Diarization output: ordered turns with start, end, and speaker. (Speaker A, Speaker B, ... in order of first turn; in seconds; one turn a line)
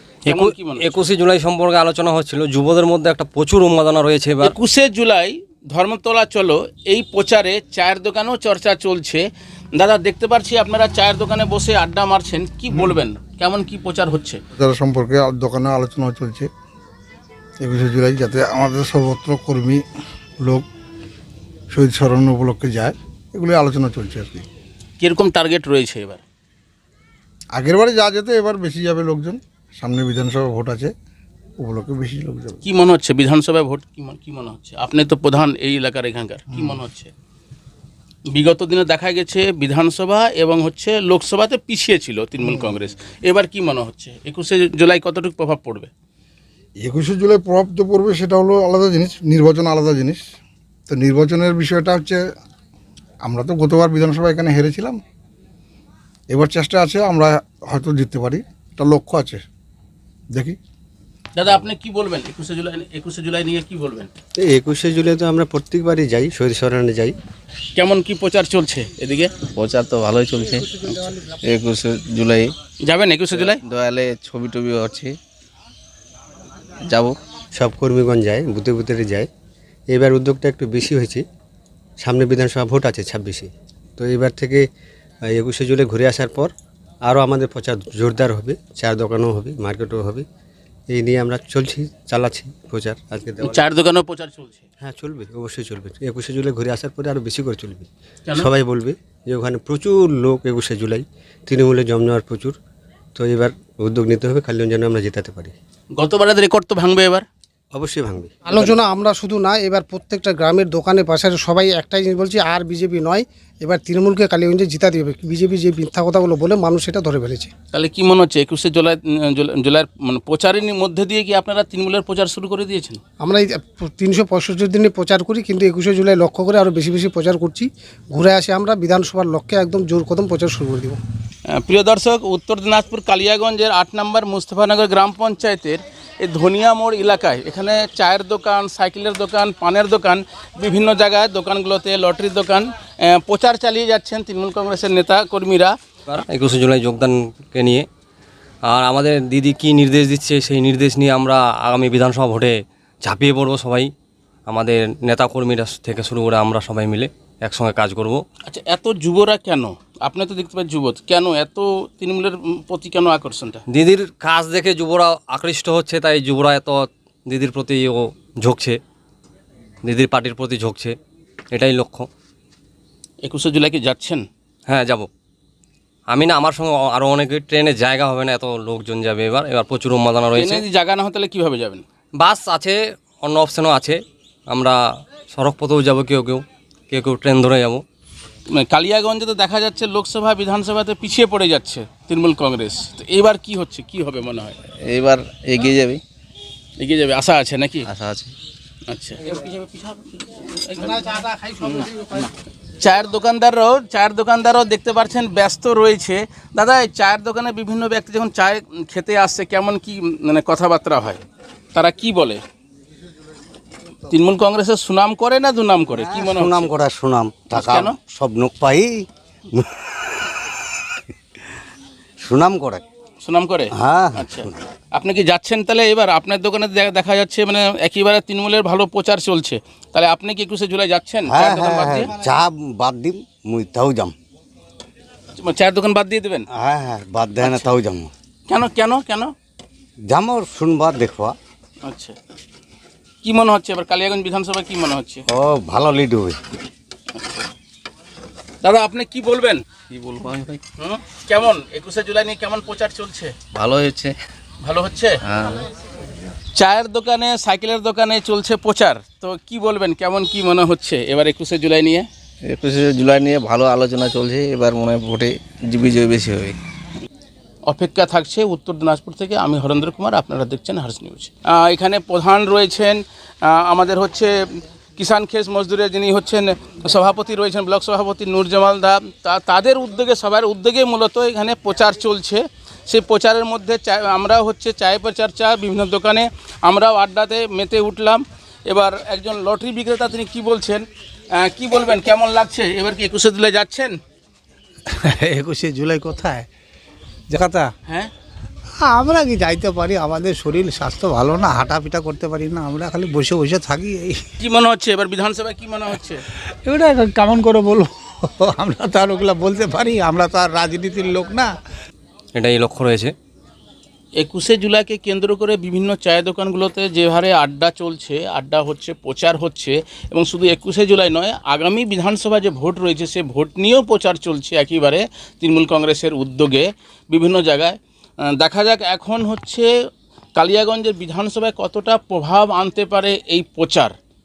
Speaker A: 0.3-4.6
Speaker B: 0.3-1.0
Speaker B: 4.4-14.4
Speaker C: 14.6-16.5
Speaker C: 17.6-19.8
Speaker C: 20.4-20.7
Speaker C: 21.7-24.5
Speaker B: 25.0-26.2
Speaker C: 27.5-30.9
Speaker C: 31.6-32.6
Speaker B: 32.6-37.1
Speaker C: 36.5-36.8
Speaker B: 38.3-45.9
Speaker C: 42.4-42.7
Speaker C: 46.8-50.2
Speaker C: 50.9-52.2
Speaker C: 53.2-55.0
Speaker C: 56.3-59.4
Speaker C: 60.3-60.6
Speaker B: 61.4-64.1
Speaker D: 64.4-67.2
Speaker B: 67.8-69.3
Speaker E: 69.5-72.5
Speaker F: 70.5-71.3
Speaker B: 72.8-73.6
Speaker E: 73.3-75.2
Speaker E: 76.8-77.2
Speaker D: 77.5-79.3
Speaker D: 79.9-81.2
Speaker D: 82.0-84.7
Speaker D: 85.3-86.5
Speaker D: 87.0-90.3
Speaker D: 90.9-93.7
Speaker B: 93.4-94.6
Speaker D: 94.8-102.6
Speaker D: 103.2-105.5
Speaker B: 106.0-107.2
Speaker D: 107.7-108.3
Speaker F: 108.5-117.5
Speaker B: 117.7-123.0
Speaker F: 123.2-131.0
Speaker B: 131.5-145.7
Speaker A: 146.1-147.9
Speaker A: 148.7-153.9
Speaker A: 154.5-158.2
Speaker B: 158.5-163.6
Speaker A: 163.7-168.8
Speaker A: 169.8-170.9
Speaker A: 171.5-172.1
Speaker B: 173.2-174.2
Speaker A: 174.7-175.1
Speaker A: 176.1-180.6
Speaker B: 180.4-181.8
Speaker A: 182.2-184.0
Speaker A: 184.5-184.8
Speaker A: 185.3-187.8
Speaker B: 188.5-194.6
Speaker E: 194.8-196.0
Speaker B: 196.8-197.9
Speaker E: 197.9-198.3
Speaker B: 198.9-201.1
Speaker F: 201.1-202.2
Speaker B: 202.8-211.2
Speaker B: 211.8-212.4
Speaker B: 214.1-216.8
Speaker G: 215.9-220.4
Speaker B: 217.5-218.0
Speaker G: 222.2-222.8
Speaker B: 223.2-232.1
Speaker G: 223.7-224.5
Speaker G: 231.3-234.1
Speaker B: 235.4-236.5
Speaker G: 236.5-238.1
Speaker B: 237.4-237.7
Speaker B: 238.5-239.3
Speaker G: 240.0-241.4
Speaker B: 241.8-242.2
Speaker B: 243.2-245.3
Speaker G: 245.3-246.4
Speaker B: 248.6-249.6
Speaker E: 249.9-250.6
Speaker B: 250.8-253.3
Speaker E: 253.5-254.2
Speaker B: 254.6-255.2
Speaker E: 255.2-255.7
Speaker B: 256.6-262.1
Speaker E: 262.4-266.6
Speaker B: 267.7-294.0
Speaker H: 294.9-296.5
Speaker H: 297.3-297.7
Speaker H: 298.8-304.2
Speaker B: 304.4-306.2
Speaker H: 306.6-311.5
Speaker A: 312.4-313.1
Speaker B: 314.2-327.8
Speaker B: 328.4-329.7
Speaker B: 330.4-333.9